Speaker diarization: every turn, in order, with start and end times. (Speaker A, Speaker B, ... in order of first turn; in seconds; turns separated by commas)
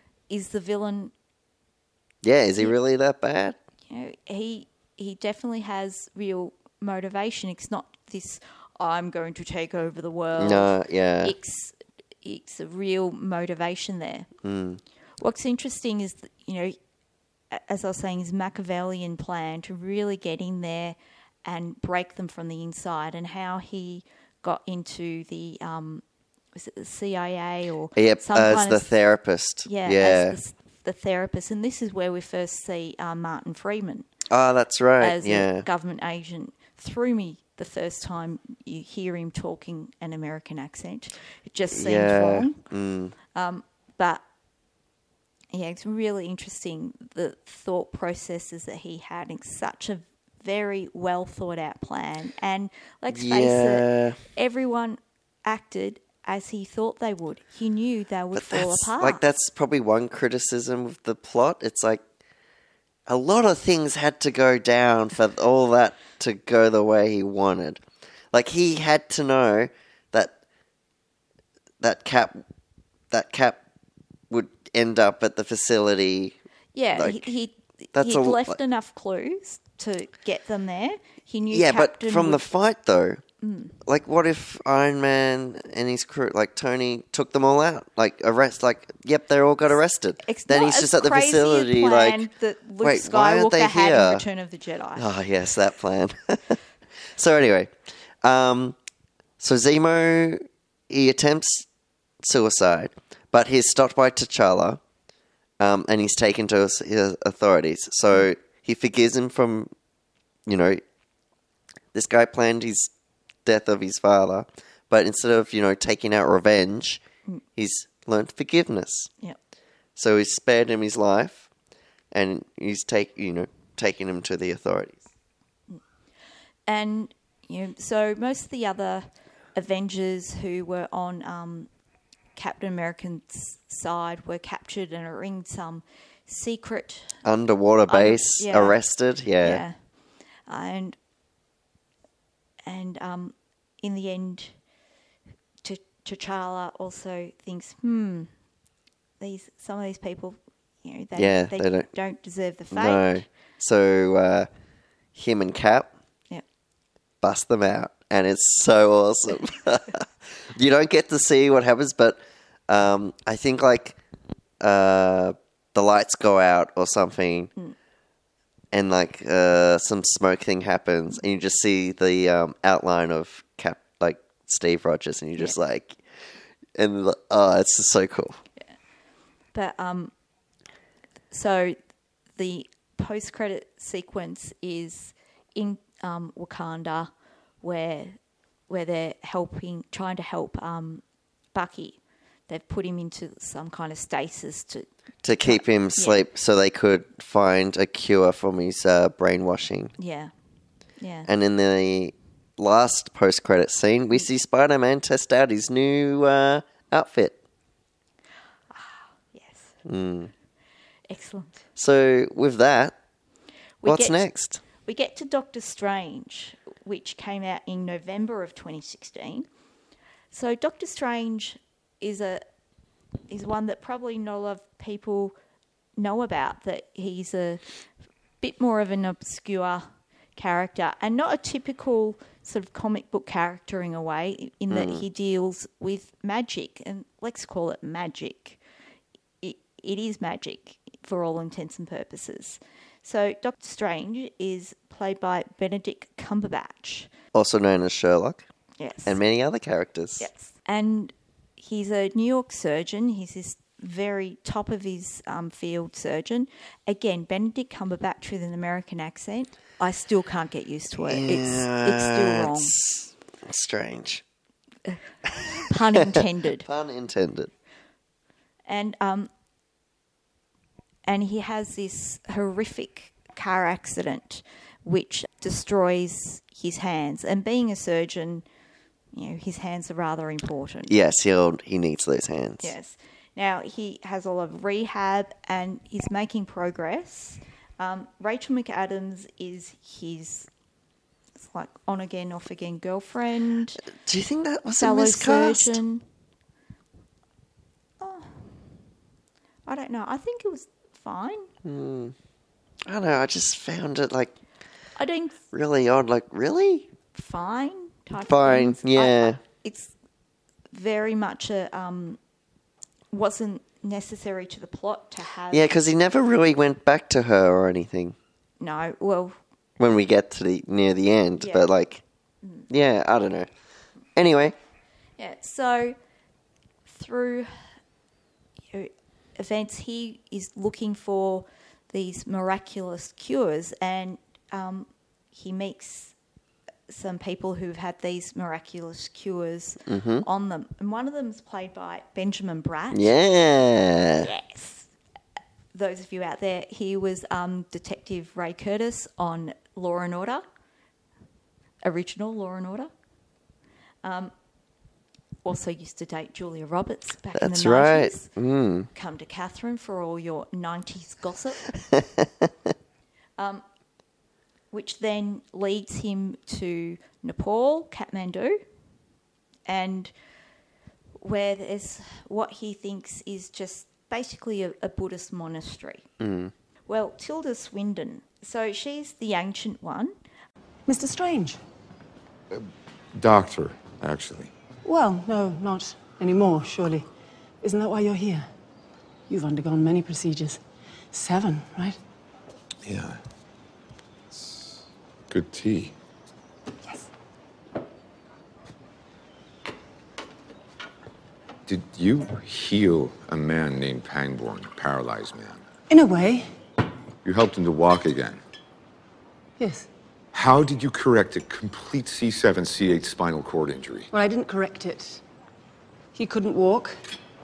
Speaker A: 0.3-1.1, Speaker B: 2.2-3.6, Speaker A: 3.9-14.3, Speaker B: 10.4-11.3, Speaker B: 14.4-14.8, Speaker A: 15.2-16.8, Speaker A: 17.5-26.0, Speaker A: 26.6-28.9, Speaker B: 28.0-30.4, Speaker A: 29.6-34.1, Speaker B: 34.3-35.7, Speaker A: 35.0-42.6, Speaker B: 41.7-43.1, Speaker A: 43.3-44.2, Speaker A: 45.5-59.2, Speaker B: 53.1-54.2, Speaker B: 58.3-62.0, Speaker B: 63.1-70.3, Speaker B: 71.8-72.4, Speaker B: 73.1-73.6, Speaker B: 74.3-76.4, Speaker A: 76.8-82.4, Speaker B: 76.9-77.3, Speaker B: 77.9-78.6, Speaker B: 81.5-83.2, Speaker A: 83.4-83.8, Speaker B: 83.8-92.3, Speaker A: 90.2-95.1, Speaker B: 92.8-94.3, Speaker B: 95.0-96.6, Speaker B: 97.1-98.8, Speaker B: 99.4-101.7, Speaker B: 102.2-104.8, Speaker B: 105.6-109.7, Speaker B: 110.5-110.8, Speaker B: 111.9-112.9, Speaker B: 113.5-117.0, Speaker B: 117.6-119.1, Speaker B: 120.0-121.5, Speaker B: 122.1-125.0, Speaker A: 126.7-131.7, Speaker A: 132.4-137.2, Speaker B: 137.2-139.6, Speaker A: 137.9-138.8, Speaker A: 139.4-139.8, Speaker A: 140.5-141.0, Speaker A: 142.7-144.6, Speaker A: 145.6-148.3, Speaker A: 149.2-153.2, Speaker B: 151.2-151.9, Speaker B: 152.7-154.5, Speaker B: 155.2-155.9, Speaker B: 157.2-164.0, Speaker B: 164.6-167.5, Speaker B: 168.7-176.0, Speaker B: 176.8-178.4, Speaker A: 179.5-180.1, Speaker A: 181.3-181.8, Speaker A: 182.4-187.1, Speaker A: 187.6-188.2, Speaker A: 188.7-191.0, Speaker A: 191.5-194.9, Speaker B: 195.2-199.9, Speaker A: 195.4-196.2, Speaker A: 200.0-200.3, Speaker A: 201.0-201.3, Speaker B: 201.3-207.4, Speaker A: 208.7-209.8, Speaker B: 209.9-210.3, Speaker A: 211.1-211.6, Speaker B: 211.8-213.0, Speaker A: 213.8-214.2, Speaker B: 213.8-214.6, Speaker A: 214.8-219.5, Speaker A: 220.3-222.4, Speaker A: 223.3-225.3, Speaker A: 226.0-227.6, Speaker A: 228.4-238.6, Speaker B: 234.7-235.1, Speaker A: 239.4-247.1, Speaker B: 247.3-248.5, Speaker A: 248.8-249.2, Speaker B: 249.1-250.3, Speaker A: 250.2-262.8, Speaker B: 261.0-264.2, Speaker B: 265.4-267.5, Speaker A: 265.6-266.7, Speaker A: 268.7-269.3, Speaker A: 271.1-278.4, Speaker A: 279.1-280.9, Speaker B: 280.9-282.7, Speaker A: 282.6-290.5, Speaker A: 291.4-293.8, Speaker B: 293.9-295.8, Speaker A: 294.8-296.0, Speaker A: 298.0-298.5, Speaker A: 299.7-301.5, Speaker B: 301.6-302.1, Speaker B: 302.9-304.4, Speaker A: 305.0-305.4, Speaker B: 305.5-306.9, Speaker A: 307.1-309.9, Speaker B: 308.2-309.4, Speaker A: 310.7-312.2, Speaker A: 313.1-315.8, Speaker B: 315.5-318.2, Speaker A: 318.6-319.4, Speaker B: 319.8-322.0, Speaker A: 321.4-321.7, Speaker B: 322.7-323.5, Speaker B: 324.2-324.6, Speaker A: 325.2-326.0, Speaker A: 326.9-327.5, Speaker A: 328.7-336.1, Speaker A: 336.9-343.1, Speaker B: 339.9-340.2, Speaker B: 342.9-344.3, Speaker A: 344.2-344.9, Speaker A: 345.7-350.4, Speaker A: 351.8-352.9, Speaker A: 354.0-354.3, Speaker A: 355.4-358.3, Speaker B: 357.4-358.9, Speaker A: 358.9-361.7, Speaker B: 361.9-362.5, Speaker A: 363.4-363.6, Speaker A: 364.7-368.6, Speaker A: 369.7-370.1, Speaker A: 371.2-376.1, Speaker B: 376.2-376.5, Speaker A: 376.9-380.1, Speaker C: 380.9-381.6, Speaker D: 382.5-384.5, Speaker C: 384.8-387.1, Speaker C: 387.6-388.5, Speaker C: 389.3-390.6, Speaker C: 391.1-392.0, Speaker D: 392.9-393.2, Speaker D: 395.3-395.9, Speaker D: 401.7-405.6, Speaker C: 405.9-406.5, Speaker D: 407.2-408.4, Speaker C: 409.6-409.9, Speaker D: 410.3-414.1, Speaker C: 414.1-415.2, Speaker C: 416.1-417.0